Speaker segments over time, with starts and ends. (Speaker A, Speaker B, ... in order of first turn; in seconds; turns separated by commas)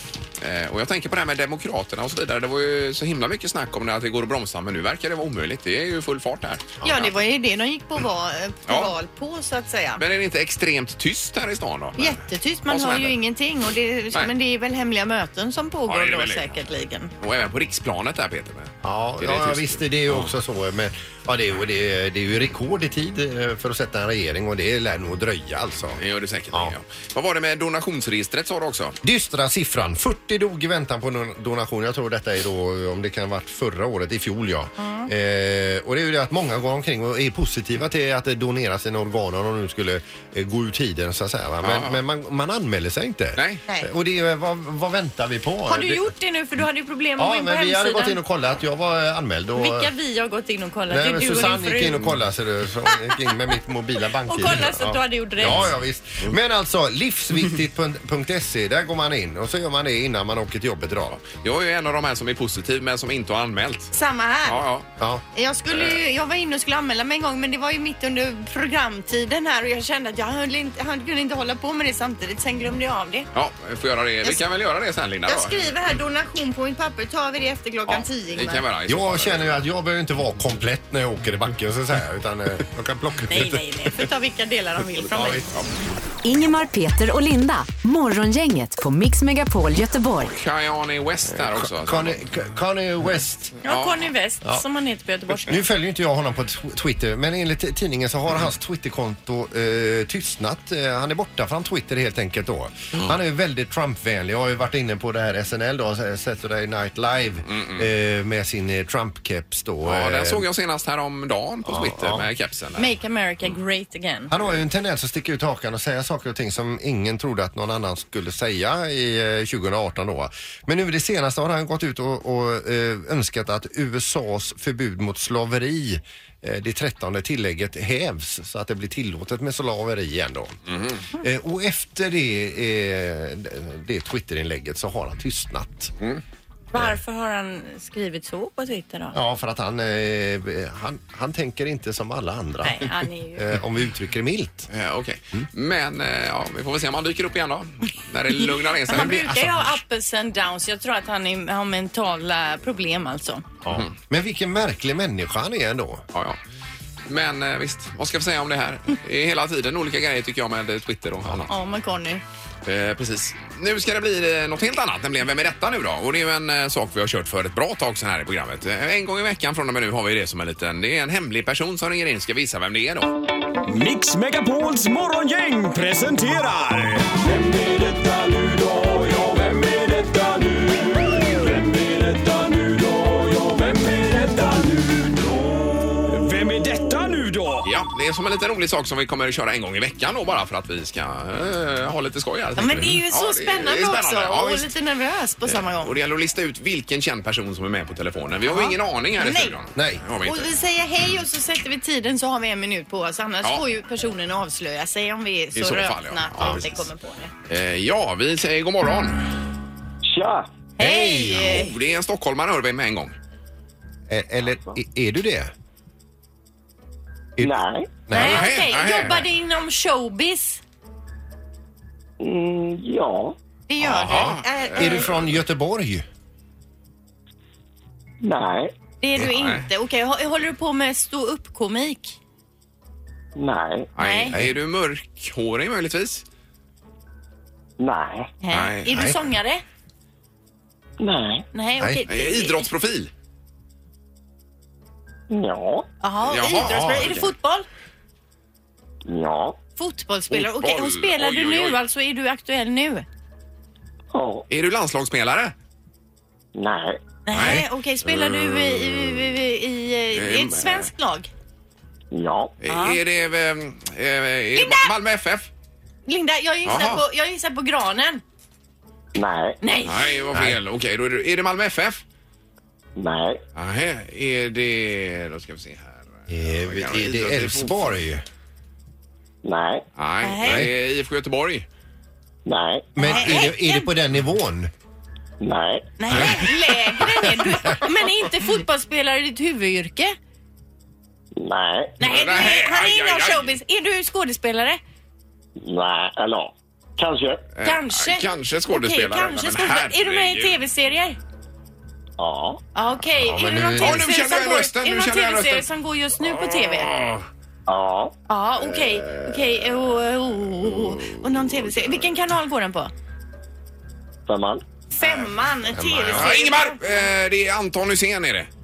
Speaker A: 0.4-7.1, Speaker B: 6.8-7.1, Speaker C: 6.8-10.0, Speaker A: 8.7-8.9, Speaker A: 10.0-13.2, Speaker C: 12.0-17.1, Speaker A: 15.9-16.6, Speaker A: 17.2-20.3, Speaker B: 18.8-26.0, Speaker A: 26.0-29.0, Speaker B: 29.0-46.1, Speaker C: 34.8-35.1, Speaker A: 41.6-42.0, Speaker A: 43.4-43.6, Speaker C: 45.7-48.2, Speaker B: 47.2-49.9, Speaker C: 49.6-52.0, Speaker B: 50.9-61.2, Speaker C: 54.3-55.6, Speaker A: 61.1-63.9, Speaker C: 63.9-64.6, Speaker A: 64.5-64.9, Speaker C: 65.3-73.3, Speaker A: 73.3-75.7, Speaker C: 75.3-78.6, Speaker A: 77.9-79.6, Speaker B: 78.9-83.7, Speaker C: 83.3-85.4, Speaker B: 85.1-85.5, Speaker A: 85.2-85.6, Speaker D: 86.2-90.3, Speaker A: 90.3-92.2, Speaker B: 91.4-93.6, Speaker A: 93.6-94.1, Speaker C: 93.6-95.6, Speaker B: 95.5-110.5, Speaker A: 107.5-107.9, Speaker A: 109.8-112.9, Speaker B: 111.7-112.3, Speaker C: 112.8-114.3, Speaker B: 114.3-130.6, Speaker A: 130.7-131.0, Speaker B: 131.2-135.9, Speaker C: 136.7-139.2, Speaker B: 139.1-144.7, Speaker C: 142.6-143.5, Speaker A: 144.7-149.5, Speaker C: 148.4-153.4, Speaker B: 148.9-149.5, Speaker B: 153.6-156.0, Speaker A: 156.1-156.4, Speaker A: 157.1-161.5, Speaker C: 161.5-162.2, Speaker A: 162.7-173.1, Speaker E: 173.7-187.7, Speaker A: 187.6-194.7, Speaker C: 192.6-195.9, Speaker A: 195.4-200.5, Speaker C: 198.5-199.6, Speaker B: 199.8-200.1, Speaker C: 200.2-207.3, Speaker A: 205.6-206.8, Speaker A: 207.5-209.2, Speaker F: 210.0-210.5, Speaker C: 210.8-211.7, Speaker B: 210.8-211.6, Speaker A: 211.4-213.2, Speaker B: 214.1-215.5, Speaker F: 214.5-214.8, Speaker B: 217.4-218.5, Speaker F: 217.4-217.9, Speaker C: 218.1-220.6, Speaker A: 218.2-219.3, Speaker F: 222.2-223.4, Speaker C: 223.7-225.1, Speaker A: 223.8-225.3, Speaker B: 224.1-226.1, Speaker F: 228.2-228.7, Speaker C: 229.0-232.2, Speaker A: 229.2-229.7, Speaker F: 233.4-233.9, Speaker A: 234.0-236.2, Speaker C: 234.0-234.4, Speaker F: 237.8-238.3, Speaker C: 238.4-239.6, Speaker A: 238.5-238.9, Speaker B: 238.9-239.2, Speaker F: 241.0-241.5, Speaker C: 241.5-242.6, Speaker A: 242.1-243.1, Speaker F: 245.3-245.9, Speaker C: 246.0-247.7, Speaker A: 246.3-247.3, Speaker F: 249.1-249.6, Speaker C: 249.8-253.1, Speaker A: 250.3-251.8, Speaker F: 254.1-254.5, Speaker A: 254.5-255.5, Speaker F: 256.6-257.0, Speaker C: 257.3-261.3, Speaker A: 257.3-259.0, Speaker A: 260.1-260.9, Speaker F: 262.1-262.5, Speaker A: 262.6-265.5, Speaker C: 262.7-263.0, Speaker C: 264.6-264.9, Speaker C: 266.1-268.2, Speaker A: 266.6-267.0, Speaker F: 269.1-269.6, Speaker C: 269.6-270.2, Speaker A: 269.9-272.0, Speaker F: 273.0-273.4, Speaker A: 273.6-277.9, Speaker B: 276.3-278.2, Speaker F: 279.4-279.9, Speaker A: 280.0-281.7, Speaker C: 280.2-280.7, Speaker B: 280.4-280.7, Speaker F: 282.5-282.9, Speaker B: 283.0-284.7, Speaker C: 283.0-283.9, Speaker F: 285.4-285.9, Speaker C: 286.0-290.2, Speaker F: 291.4-292.0, Speaker C: 292.0-294.8, Speaker A: 292.0-293.6, Speaker F: 295.6-297.5, Speaker A: 297.6-300.6, Speaker C: 297.6-301.2, Speaker F: 302.2-302.6, Speaker C: 302.8-306.9, Speaker B: 303.2-304.1, Speaker A: 303.8-305.7, Speaker A: 306.3-307.3, Speaker F: 307.7-308.1, Speaker C: 308.3-312.9, Speaker A: 310.7-311.7, Speaker F: 314.3-314.6, Speaker C: 314.9-316.8, Speaker B: 315.7-316.3, Speaker A: 316.1-318.5